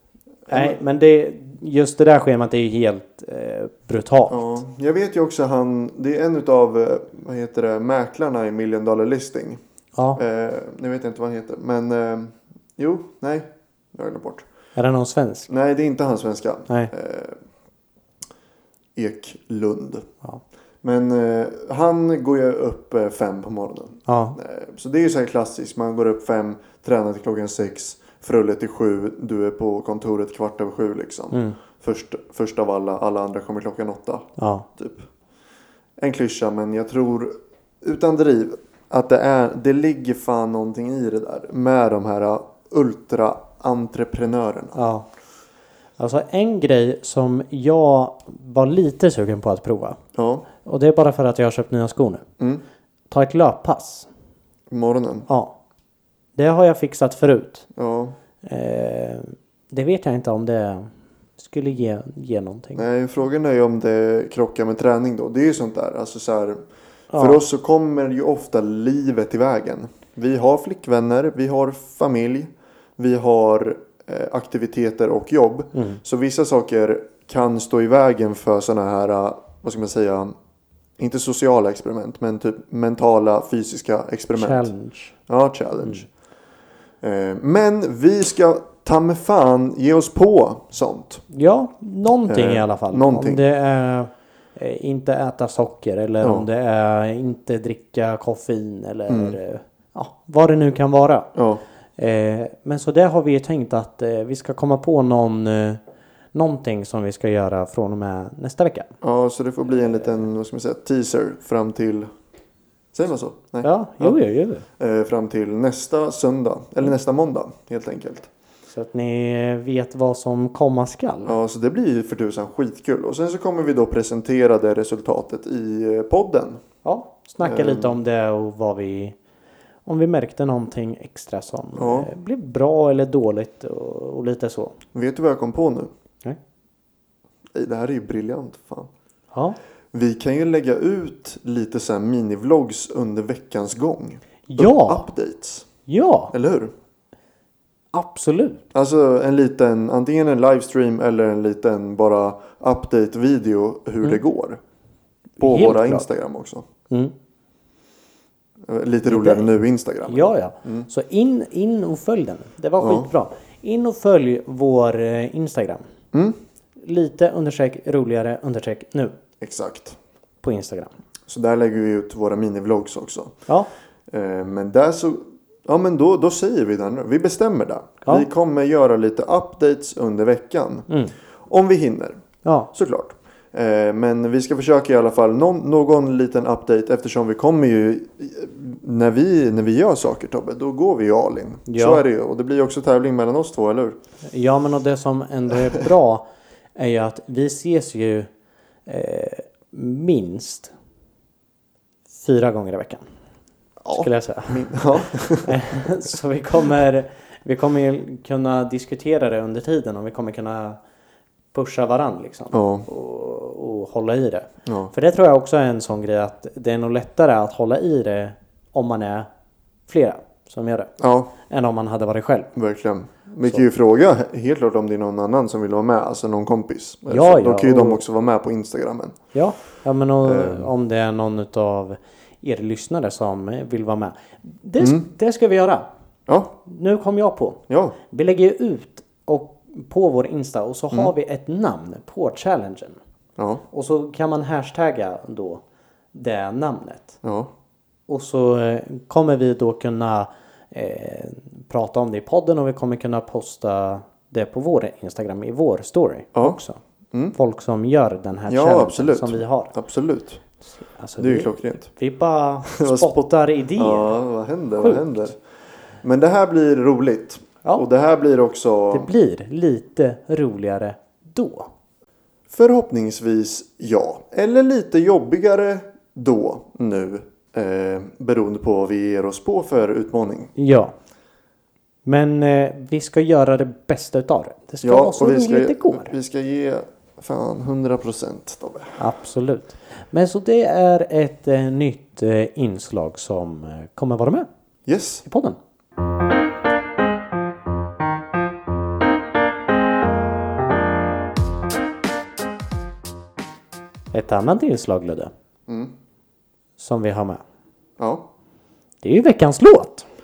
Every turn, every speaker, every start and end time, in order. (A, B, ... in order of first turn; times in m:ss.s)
0:00.5-0:00.8 A
0:00.5-0:04.6 B
0:04.3-0:09.6 A
0:10.0-0:10.2 B
0:10.2-0:14.4 A
0:14.8-0:15.5 B
0:15.5-0:17.4 A
0:19.0-0:20.1 A
0:20.8-0:35.1 A
0:24.1-0:24.4 B
0:31.3-0:31.6 B
0:34.4-0:34.6 B
0:36.0-0:44.8 A
0:44.7-0:45.1 B
0:46.0-0:50.0 B
0:50.1-0:50.5 A
0:50.6-0:52.2 B
0:53.1-0:54.1 B
0:54.7-0:55.3 A
0:55.3-0:55.5 B
0:56.4-0:57.7 B
0:57.7-0:58.2 A
0:58.4-1:02.8 B
1:02.8-1:06.6 A
1:07.1-1:07.4 B
1:07.1-1:20.3 A
1:15.7-1:16.0 B
1:21.0-1:24.7 A
1:24.3-1:25.1 B
1:25.3-1:26.1 A
1:27.0-1:31.2 A
1:31.3-1:41.3 B
1:32.3-1:33.4 A
1:39.1-1:39.4 A
1:41.3-1:41.6 A
1:42.0-1:45.8 B
1:46.3-1:48.9 B
1:49.0-1:52.1 A
1:52.9-1:54.2 A
1:53.6-1:54.6 B
1:54.8-1:58.3 A
1:58.7-2:01.4 B
2:01.2-2:06.6 A
2:06.8-2:09.2 B
2:07.4-2:08.0 A
2:09.8-2:14.8 B
2:11.8-2:12.1 A
2:14.9-2:15.9 A
2:17.5-2:18.9 A
2:19.3-2:19.6 B
2:19.9-2:25.7 A
2:24.5-2:25.0 B
2:25.9-2:26.3 B
2:26.3-2:26.7 A
2:27.9-2:28.6 B
2:28.7-2:34.6 A
2:35.4-2:36.6 A
2:35.4-2:36.0 B
2:38.6-2:40.9 A
2:39.0-2:39.5 B
2:40.1-2:45.8 B
2:42.8-2:43.1 A
2:46.1-2:46.4 A
2:46.8-2:49.1 B
2:49.4-2:50.0 A
2:50.4-2:50.9 B
2:51.3-2:53.4 A
2:54.1-3:00.9 A
3:00.9-3:01.1 B
3:01.4-3:02.2 A
3:02.4-3:02.7 B
3:02.7-3:14.0 A
3:11.7-3:12.0 B
3:14.3-3:18.3 B
3:18.9-3:20.7 B
3:22.1-3:23.0 B
3:23.8-3:25.5 A
3:23.9-3:24.8 B
3:25.4-3:30.8 B
3:31.5-3:39.3 B
3:32.5-3:32.9 A
3:34.6-3:34.9 A
3:39.9-3:42.5 B
3:41.0-3:41.3 A
3:42.5-3:49.2 A
3:47.1-3:48.0 B
3:49.3-3:55.9 B
3:50.2-3:50.7 A
3:54.8-3:55.0 A
3:56.3-3:56.5 A
3:56.6-4:03.0 B
3:57.7-3:58.0 A
4:03.4-4:03.6 A
4:03.7-4:05.6 B
4:06.1-4:07.2 B
4:07.2-4:07.5 A
4:08.1-4:16.8 B
4:17.3-4:19.7 B
4:18.5-4:20.4 A
4:20.9-4:24.2 B
4:21.2-4:21.9 A
4:22.7-4:23.2 A
4:23.8-4:25.4 A
4:24.8-4:25.3 B
4:26.0-4:29.1 A
4:28.9-4:31.7 B
4:32.5-4:40.5 A
4:40.6-4:40.9 B
4:42.0-4:46.1 B
4:44.8-4:49.0 A
4:49.0-4:54.5 B
4:54.9-4:55.2 A
4:55.2-4:55.6 B
5:04.1-5:05.3 B
5:05.7-5:05.9 A
5:06.8-5:07.4 B
5:08.0-5:08.2 A
5:09.0-5:10.0 B